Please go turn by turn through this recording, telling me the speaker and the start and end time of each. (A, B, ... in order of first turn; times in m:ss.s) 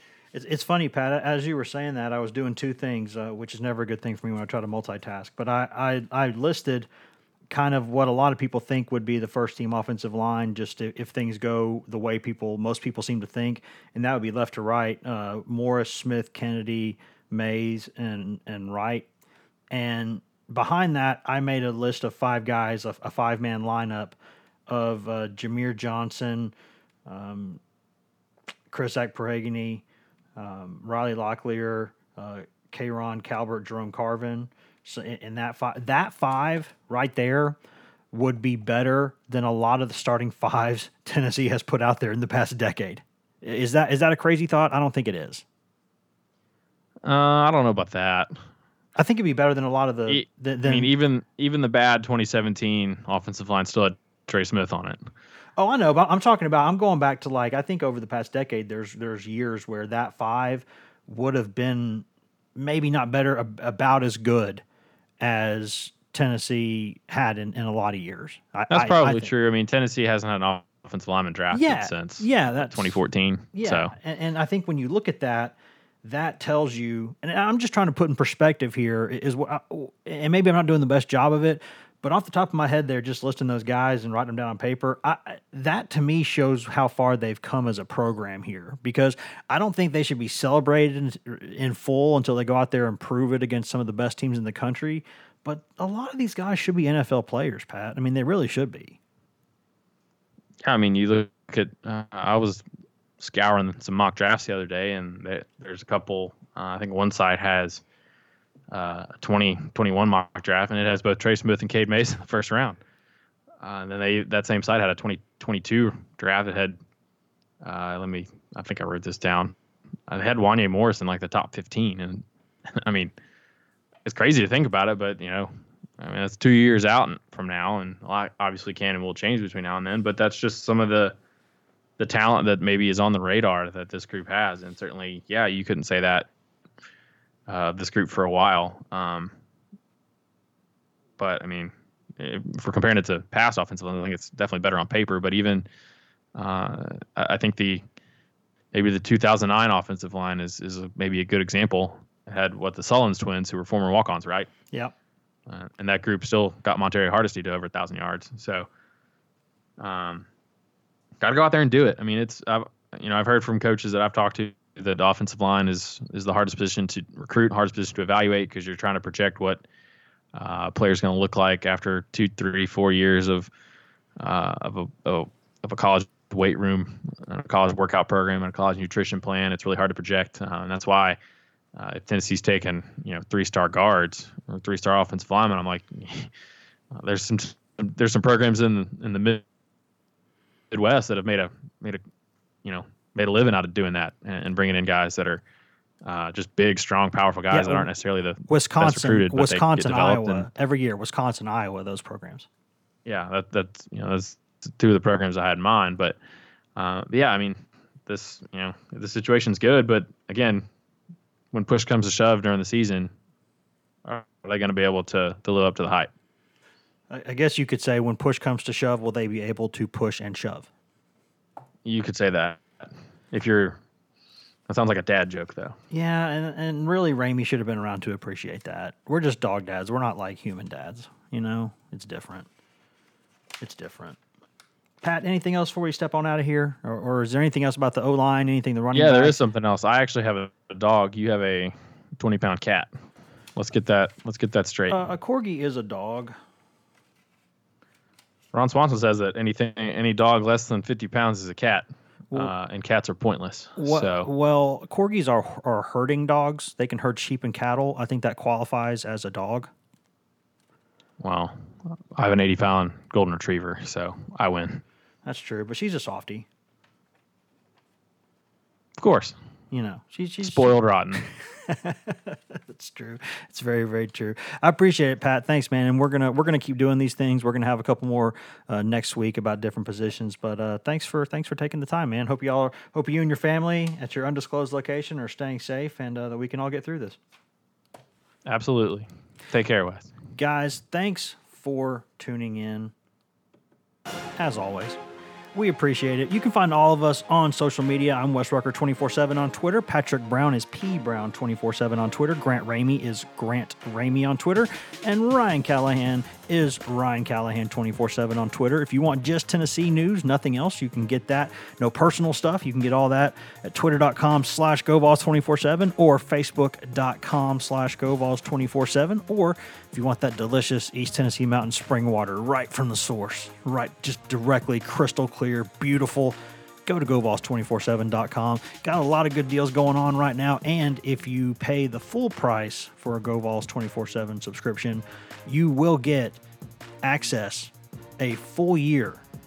0:00.3-0:06.9 A
0:07.5-0:19.1 A
0:19.7-0:24.2 A
0:24.7-0:26.5 A
0:27.0-0:27.6 A
0:28.7-0:29.8 A
0:30.4-0:37.6 A
0:38.1-0:45.4 A
0:47.0-0:48.3 B
0:49.0-0:50.9 A
0:50.1-0:55.1 B
0:55.6-1:04.6 A
1:05.2-1:09.3 A
1:08.7-1:13.9 B
1:11.5-1:13.0 A
1:13.5-1:39.0 A
1:40.6-1:42.6 B
1:43.2-1:47.8 B
1:48.7-1:52.8 B
1:53.6-1:56.8 B
1:57.6-1:59.5 B
2:00.1-2:02.2 B
2:02.8-2:03.1 B
2:04.0-2:11.2 B
2:12.0-2:16.3 B
2:17.5-2:19.3 B
2:21.2-2:25.7 B
2:26.3-2:27.8 B
2:28.7-2:34.5 B
2:35.5-2:38.7 B
2:39.8-2:40.2 B
2:41.2-2:49.6 B
2:50.3-2:53.5 B
2:54.2-3:01.2 B
3:01.8-3:06.3 B
3:06.9-3:09.4 B
3:10.7-3:12.0 B
3:12.6-3:15.4 B
3:16.0-3:20.5 B
3:17.5-3:17.9 A
3:18.5-3:22.5 A
3:23.0-3:26.2 B
3:26.8-3:30.6 B
3:31.5-3:33.1 B
3:34.0-3:36.1 B
3:37.1-3:40.7 A
3:41.8-3:43.8 B
3:44.7-3:45.8 B
3:45.9-3:52.5 A
3:53.6-3:54.2 A
3:55.0-3:59.4 A
3:58.9-4:02.9 B
4:03.6-4:05.0 B
4:04.9-4:06.4 A
4:08.5-4:14.3 B
4:13.8-4:19.7 A
4:21.2-4:24.8 B
4:25.2-4:26.5 A
4:29.0-4:29.4 B
4:29.7-4:47.2 A
4:30.4-4:31.2 B
4:48.4-4:50.1 B
4:50.3-4:52.9 A
4:54.4-4:55.0 A
4:55.5-5:36.4 A
5:37.0-5:39.2 A